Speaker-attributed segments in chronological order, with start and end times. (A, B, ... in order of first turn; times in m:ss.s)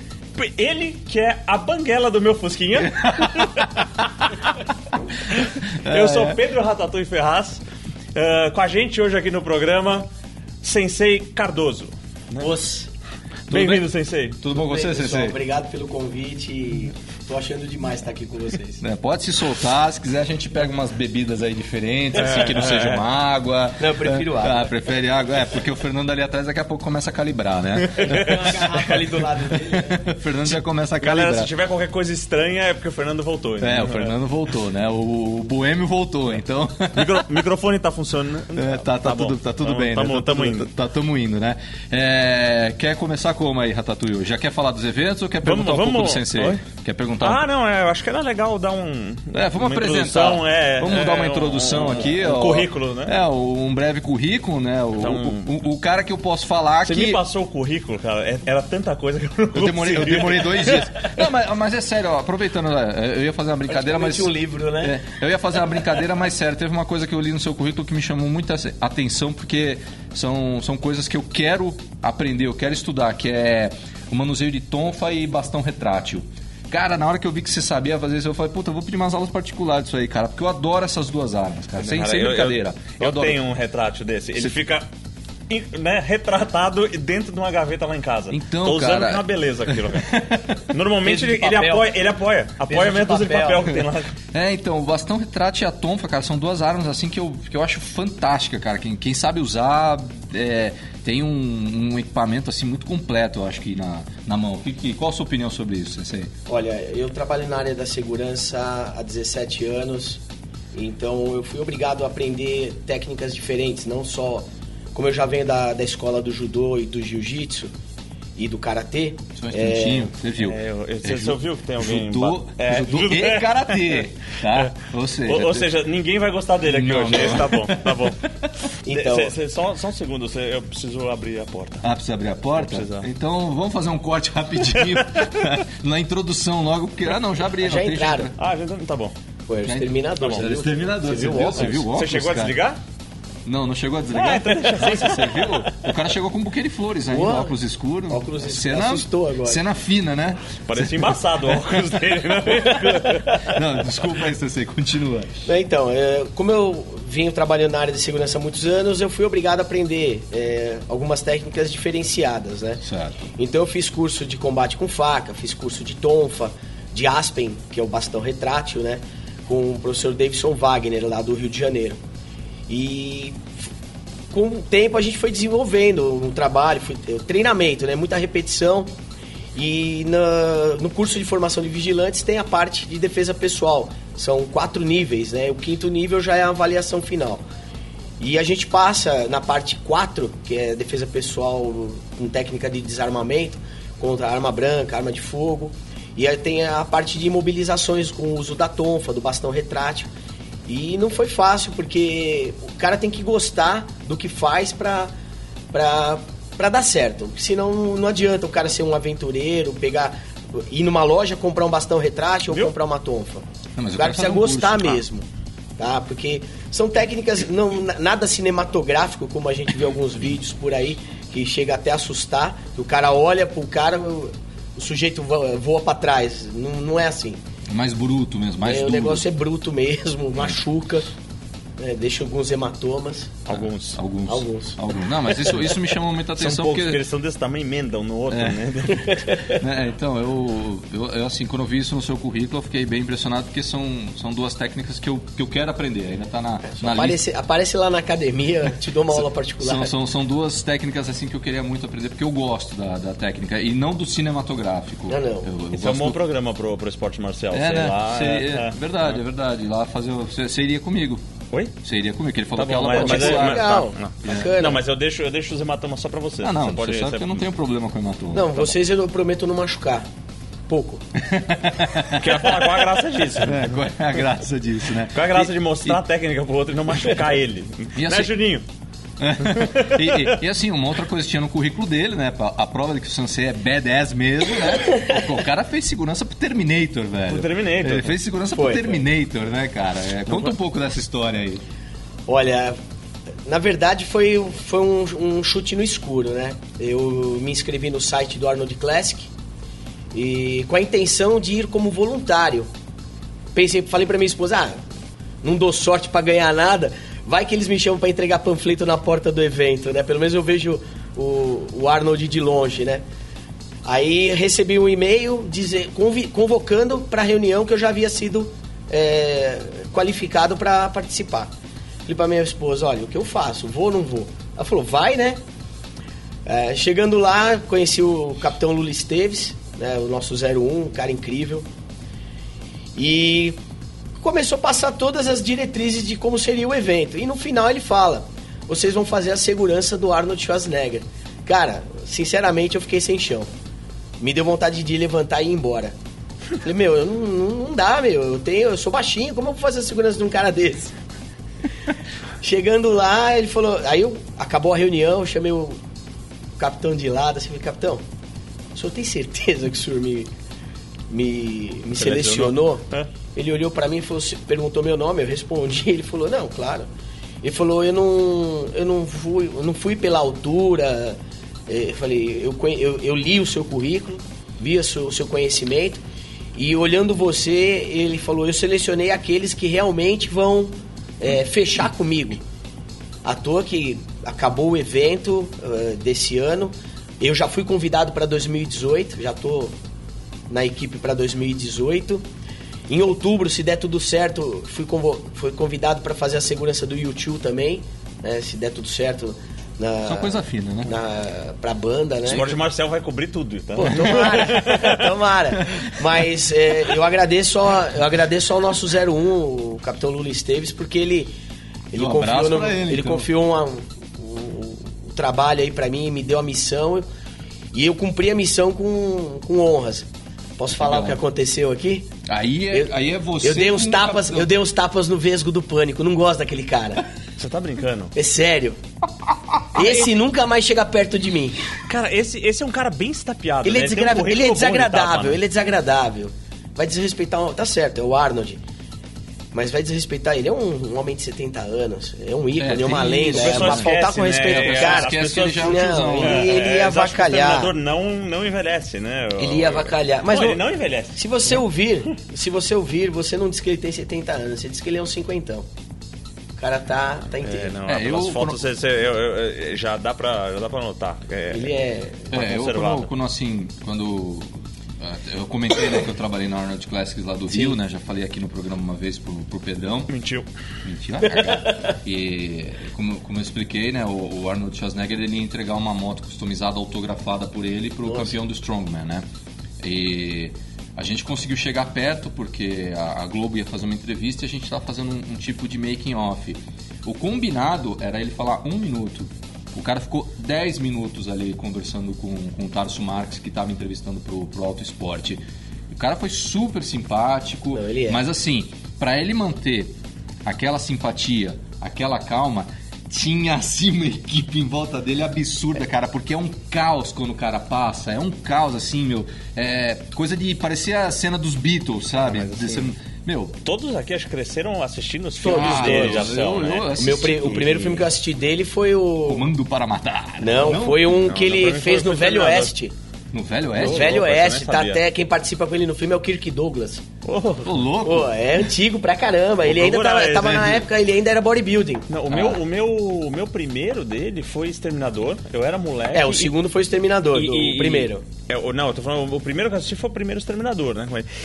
0:00.4-0:03.8 A
0:03.0-0:03.7 B
0:05.3-0:07.6 A
0:05.8-0:06.4 B
0:08.2-0:10.1 A
0:10.6-0:12.6 A
0:12.4-0:12.9 B
0:13.5-0:14.4 A
0:13.5-0:13.9 B
0:14.4-0:15.4 B
0:14.5-0:18.8 C
0:18.8-0:29.0 B
0:22.2-0:23.1 A
0:23.8-0:24.7 C
0:27.8-0:28.8 A
0:28.0-0:30.1 C
0:29.5-0:31.5 B
0:31.0-0:34.1 A
0:33.6-0:37.3 B
0:36.9-0:40.7 A
0:38.6-0:47.5 B
0:45.4-0:46.6 A
0:47.2-0:53.2 A
0:49.3-0:57.2 B
0:55.0-0:55.6 A
0:56.8-1:01.1 A
0:59.5-1:23.4 B
1:03.7-1:05.0 C
1:21.8-1:24.9 A
1:25.5-1:34.1 A
1:28.3-1:30.6 B
1:31.0-1:32.1 C
1:32.6-1:33.8 C
1:34.3-1:46.3 B
1:46.5-1:50.2 C
1:50.7-1:57.7 C
1:58.4-2:00.1 C
1:59.4-2:05.7 B
2:00.4-2:04.7 A
2:05.3-2:08.2 A
2:06.6-2:08.1 B
2:08.8-2:09.4 C
2:08.9-2:11.9 A
2:11.8-2:18.4 B
2:12.6-2:13.1 A
2:14.7-2:15.1 A
2:17.6-2:18.3 C
2:18.4-2:19.2 A
2:19.5-2:21.8 C
2:19.6-2:22.5 B
2:20.2-2:20.5 A
2:21.6-2:22.8 A
2:23.4-2:35.4 B
2:24.1-2:25.8 A
2:27.1-2:27.6 C
2:28.1-2:29.6 C
2:30.6-2:33.4 A
2:35.5-2:42.8 C
2:42.8-2:43.2 B
2:43.4-2:52.0 C
2:52.7-2:53.5 C
2:54.3-2:59.0 C
2:59.6-3:07.4 C
3:08.2-3:20.1 C
3:20.7-3:25.1 C
3:25.7-3:33.4 C
3:33.8-3:35.0 B
3:34.0-3:35.3 C
3:35.8-3:47.4 C
3:47.7-3:49.2 B
3:48.6-3:51.1 C
3:51.8-3:53.4 C
3:53.5-3:54.0 A
3:53.5-3:57.0 B
3:54.3-3:54.8 C
3:56.4-3:59.2 A
3:58.3-3:58.7 B
3:58.9-3:59.6 C
3:59.6-4:07.2 B
4:06.6-4:09.9 C
4:09.2-4:16.2 B
4:15.1-4:15.5 C
4:15.7-4:18.8 A
4:17.5-4:21.2 B
4:21.8-4:24.5 B
4:22.6-4:27.4 A
4:23.0-4:24.8 C
4:26.4-4:28.8 B
4:28.3-4:30.1 C
4:30.7-4:31.0 C
4:31.2-4:32.7 B
4:32.1-4:33.7 A
4:33.4-4:36.0 B
4:35.1-4:38.6 A
4:38.0-4:38.3 B
4:39.2-4:51.6 B
4:39.4-4:40.4 A
4:47.3-4:48.1 A
4:48.5-4:49.0 C
4:52.3-4:52.8 C
4:53.4-4:59.3 C
5:00.1-5:02.7 C
5:03.6-5:04.8 C
5:05.4-5:13.1 C
5:13.8-5:21.5 C
5:22.1-5:25.4 C
5:26.5-5:31.7 C
5:33.0-5:33.6 C
5:34.2-5:43.5 C
5:44.2-5:46.0 C
5:46.6-5:51.0 C
5:52.4-5:55.8 C
5:56.6-5:58.0 C
5:58.7-6:00.3 C
6:01.1-6:06.9 C
6:02.0-6:03.1 A
6:07.4-6:16.0 C
6:16.6-6:22.4 C
6:23.2-6:29.8 C
6:30.5-6:32.2 C
6:32.9-6:42.5 C
6:40.0-6:40.9 B
6:42.3-6:45.0 A
6:43.8-6:51.3 C
6:45.6-6:45.8 B
6:51.9-6:57.1 C
6:51.9-6:53.3 B
6:57.7-7:02.1 C
7:00.7-7:01.2 B
7:02.3-7:04.5 B
7:02.7-7:07.0 C
7:07.4-7:08.1 A
7:08.2-7:08.8 C
7:09.7-7:11.6 C
7:11.9-7:15.4 A
7:13.6-7:18.6 C
7:19.5-7:27.7 C
7:22.6-7:23.9 B
7:23.3-7:31.2 A
7:24.4-7:26.6 B
7:29.4-7:30.6 C
7:31.2-7:35.7 C
7:36.6-7:37.7 C
7:37.4-7:41.8 A
7:37.9-7:38.6 B
7:41.5-7:42.3 C
7:42.3-7:43.1 A
7:42.3-7:50.1 B
7:47.5-7:47.8 C
7:50.1-7:50.5 A
7:50.8-7:59.2 B
7:58.0-7:58.4 C
7:59.8-8:19.9 B
8:17.7-8:18.2 C
8:20.4-8:33.6 B
8:32.2-8:32.9 A
8:33.6-8:36.9 A
8:35.4-8:36.4 C
8:35.5-8:38.1 B
8:37.0-8:39.5 C
8:39.3-8:41.1 B
8:40.4-8:42.9 C
8:41.0-8:42.7 A
8:43.3-8:44.2 B
8:43.8-8:45.0 A
8:43.8-8:47.0 C
8:47.2-8:47.8 A
8:47.6-8:48.3 B
8:48.0-8:52.1 C
8:49.6-8:50.8 A
8:52.1-8:56.5 A
8:52.3-8:52.6 B
8:56.1-8:58.2 C
8:57.3-9:01.3 A